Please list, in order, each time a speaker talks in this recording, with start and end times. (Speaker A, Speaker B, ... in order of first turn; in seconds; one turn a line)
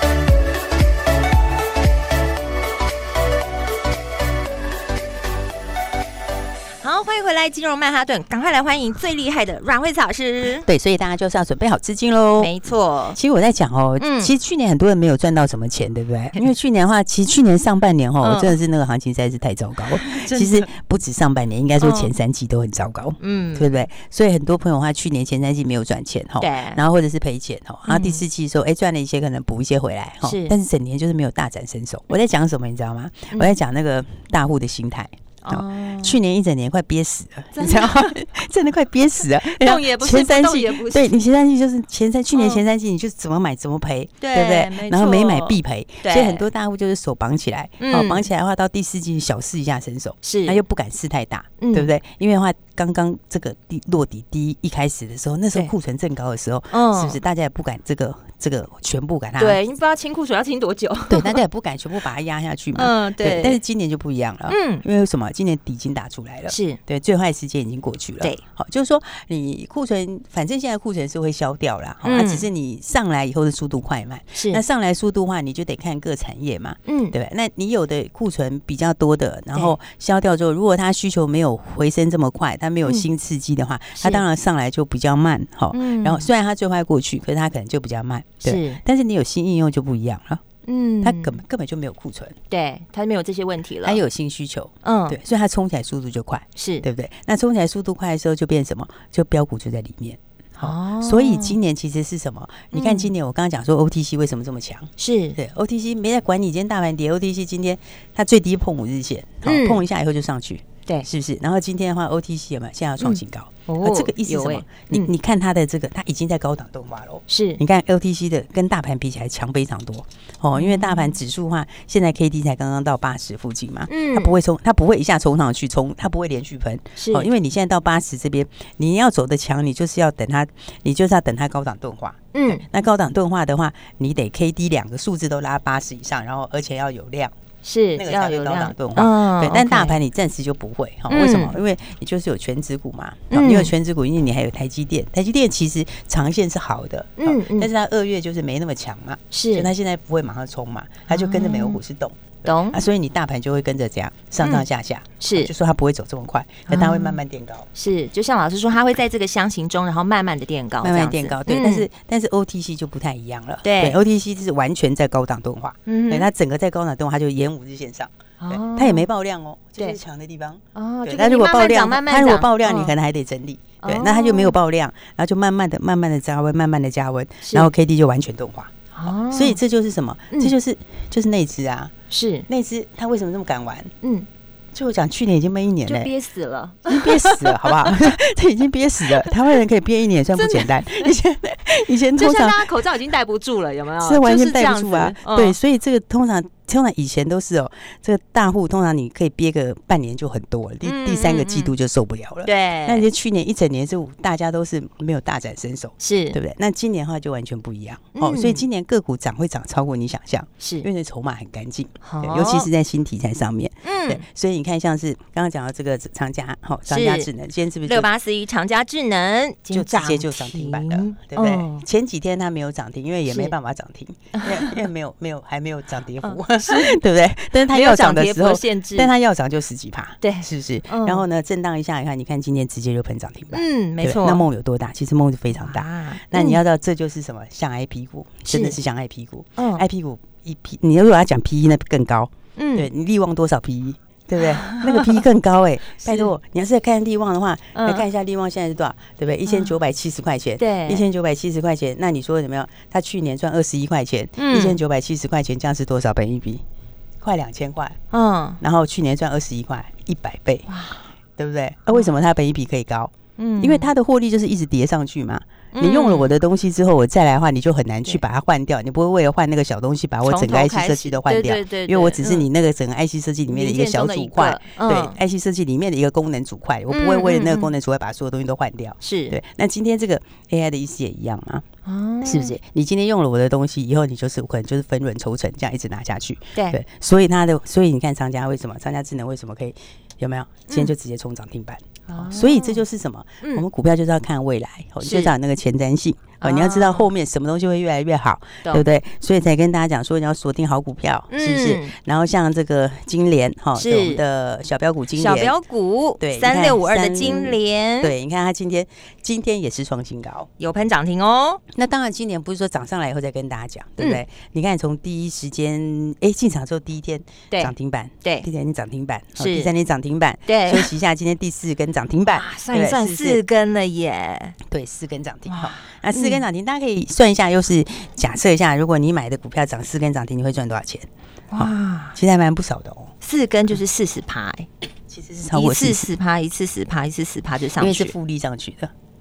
Speaker A: 6.8-10.7
Speaker B: 10.6-12.5
Speaker A: 12.4-13.2
Speaker B: 13.1-59.6
Speaker A: 14.0-14.3
Speaker A: 18.2-18.6
Speaker A: 20.0-20.7
Speaker A: 21.8-22.1
Speaker A: 23.2-23.7
Speaker A: 26.4-26.8
Speaker A: 27.9-28.2
Speaker A: 30.2-30.5
Speaker A: 35.4-36.2
Speaker A: 37.5-38.1
Speaker A: 39.4-41.1
Speaker A: 42.4-42.6
Speaker A: 44.2-46.4
Speaker A: 47.8-48.3
Speaker A: 50.2-50.6
Speaker A: 51.6-51.9
Speaker A: 56.7-57.2
Speaker A: 59.4-61.4
Speaker B: 61.1-90.4
Speaker A: 62.7-63.6
Speaker A: 64.5-64.8
Speaker A: 66.5-66.8
Speaker A: 72.0-72.5
Speaker A: 74.3-74.6
Speaker A: 76.9-77.1
Speaker A: 84.0-84.2
Speaker A: 85.7-86.3
Speaker A: 88.4-88.8
Speaker A: 90.7-91.3
Speaker B: 91.0-92.4
Speaker A: 92.5-94.0
Speaker B: 93.8-137.3
Speaker A: 94.8-95.2
Speaker A: 96.6-96.8
Speaker A: 100.6-101.6
Speaker A: 102.7-103.1
Speaker A: 105.0-105.4
Speaker A: 109.4-109.8
Speaker A: 113.0-115.1
Speaker A: 117.3-117.6
Speaker A: 120.5-121.1
Speaker A: 123.9-124.3
Speaker A: 127.0-127.3
Speaker A: 132.3-132.6
Speaker A: 137.6-140.0
Speaker B: 137.9-157.7
Speaker A: 141.1-141.6
Speaker A: 143.3-143.7
Speaker A: 147.2-147.7
Speaker A: 149.3-149.7
Speaker A: 151.1-151.8
Speaker A: 152.4-152.8
Speaker A: 154.4-154.7
Speaker A: 155.2-155.5
Speaker A: 156.7-157.2
Speaker A: 157.8-161.9
Speaker B: 160.8-181.9
Speaker A: 163.6-164.0
Speaker A: 165.9-166.3
Speaker A: 168.4-169.1
Speaker A: 170.7-172.9
Speaker A: 173.8-174.6
Speaker A: 177.4-177.7
Speaker A: 178.9-179.6
Speaker A: 182.1-182.4
Speaker B: 182.5-183.9
Speaker B: 184.7-186.1
Speaker A: 185.8-188.1
Speaker B: 186.8-192.7
Speaker A: 190.3-191.1
Speaker A: 192.1-195.6
Speaker B: 194.0-218.1
Speaker A: 200.8-201.7
Speaker A: 202.4-203.1
Speaker A: 206.0-206.4
Speaker A: 208.1-208.6
Speaker A: 210.6-210.9
Speaker A: 212.0-212.7
Speaker A: 213.8-214.2
Speaker A: 216.9-217.3
Speaker A: 217.8-221.8
Speaker B: 219.7-256.6
Speaker A: 223.3-223.5
Speaker A: 224.3-224.8
Speaker A: 226.2-227.0
Speaker A: 227.7-229.1
Speaker A: 230.2-231.2
Speaker A: 233.5-234.4
Speaker A: 235.5-236.6
Speaker A: 238.5-238.8
Speaker A: 239.6-239.8
Speaker A: 242.6-242.9
Speaker A: 244.6-245.2
Speaker A: 247.7-248.1
Speaker A: 250.6-251.0
Speaker A: 254.4-254.8
Speaker B: 257.2-258.0
Speaker A: 258.1-258.6
Speaker B: 258.6-260.6
Speaker A: 260.7-261.0
Speaker B: 261.4-281.6
Speaker A: 263.4-263.9
Speaker A: 265.7-266.3
Speaker A: 270.2-272.5
Speaker A: 273.5-275.2
Speaker A: 276.9-277.7
Speaker A: 279.0-279.4
Speaker A: 281.9-282.5
Speaker B: 282.2-305.5
Speaker A: 292.1-292.8
Speaker A: 295.0-295.3
Speaker A: 296.4-297.1
Speaker A: 301.3-301.9
Speaker A: 303.8-304.2
Speaker A: 305.1-308.1
Speaker B: 306.2-310.5
Speaker A: 310.6-311.6
Speaker B: 311.7-323.4
Speaker A: 319.4-319.7
Speaker A: 320.5-320.9
Speaker A: 322.3-324.6
Speaker B: 324.6-333.1
Speaker A: 325.5-326.4
Speaker A: 331.5-332.2
Speaker A: 333.2-334.7
Speaker B: 335.1-336.1
Speaker A: 335.5-338.1
Speaker B: 337.8-338.9